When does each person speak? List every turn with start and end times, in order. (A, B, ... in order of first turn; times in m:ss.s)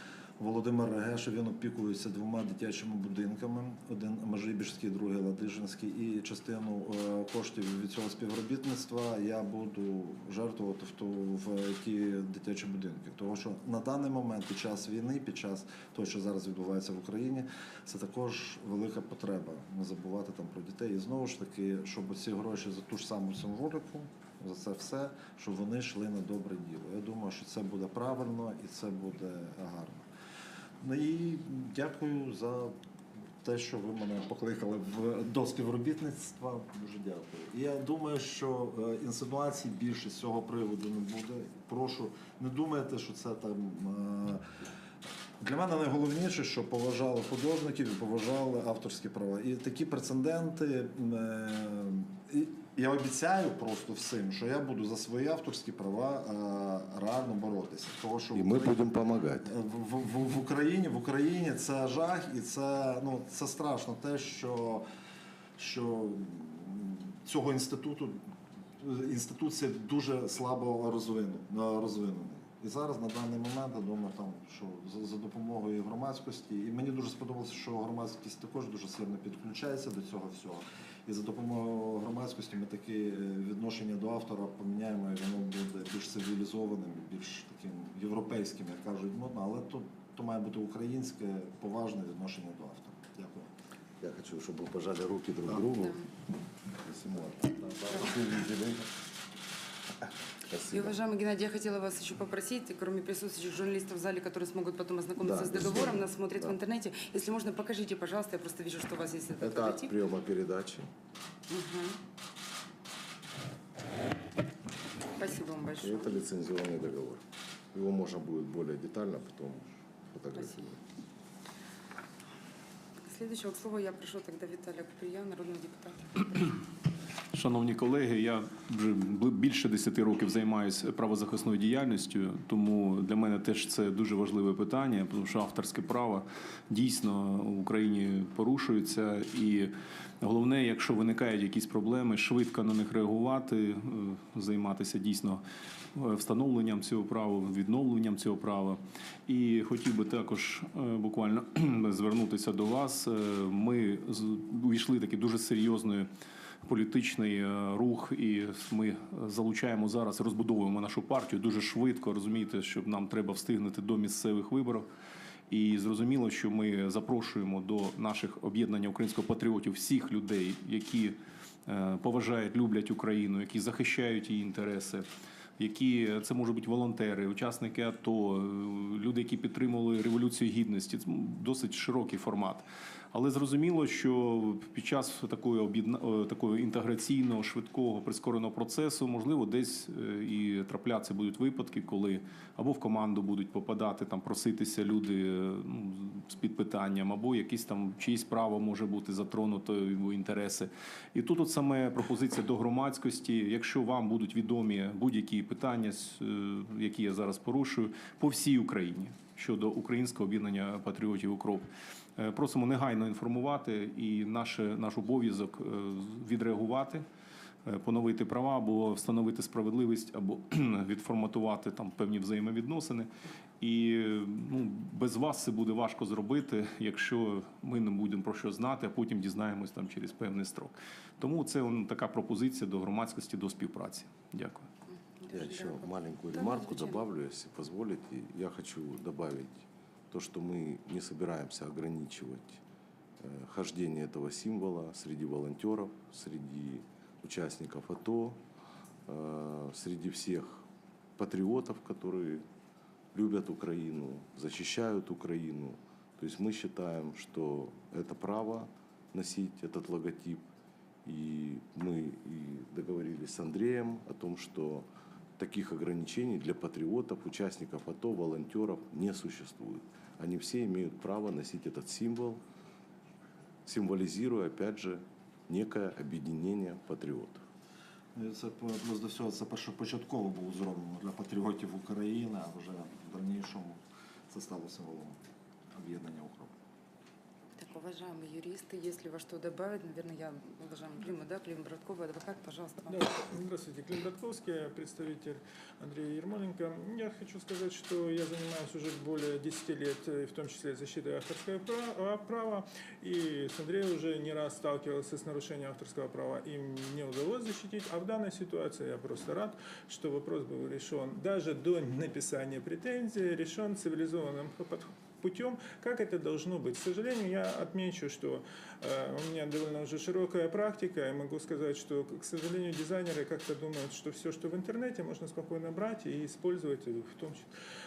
0:00.4-0:30.0 A
0:30.8-0:32.7 A
0:33.4-0:44.4 A
0:45.4-0:58.8 A
0:58.3-0:59.5 B
0:59.4-1:04.8 A
1:05.6-1:08.2 A
1:08.8-1:33.5 A
1:34.0-1:36.0 B
1:35.8-1:36.1 C
1:36.9-1:38.9 B
1:37.0-1:38.1 A
1:40.5-1:41.0 B
1:40.7-1:50.0 C
1:45.2-1:46.6 B
1:49.4-1:50.9 B
1:51.5-1:52.0 C
1:55.2-1:56.2 C
1:55.8-1:57.2 B
1:57.7-2:00.8 B
2:00.4-2:00.6 C
2:03.0-2:06.4 C
2:07.3-2:25.4 D
2:26.0-2:36.1 D
2:36.7-2:44.9 D
2:45.5-2:55.1 D
2:55.6-3:37.0 D
3:37.7-3:43.1 D
3:43.6-3:54.7 D
3:54.9-3:57.1 C
3:55.3-4:02.6 B
4:03.2-4:08.4 B
4:09.1-4:10.6 B
4:11.2-4:12.4 B
4:13.1-4:20.4 B
4:21.0-4:24.8 B
4:25.4-4:32.4 B
4:33.7-4:37.4 B
4:38.2-4:45.2 A
4:45.8-4:46.5 A
4:47.6-4:53.1 C
4:52.9-5:27.5 E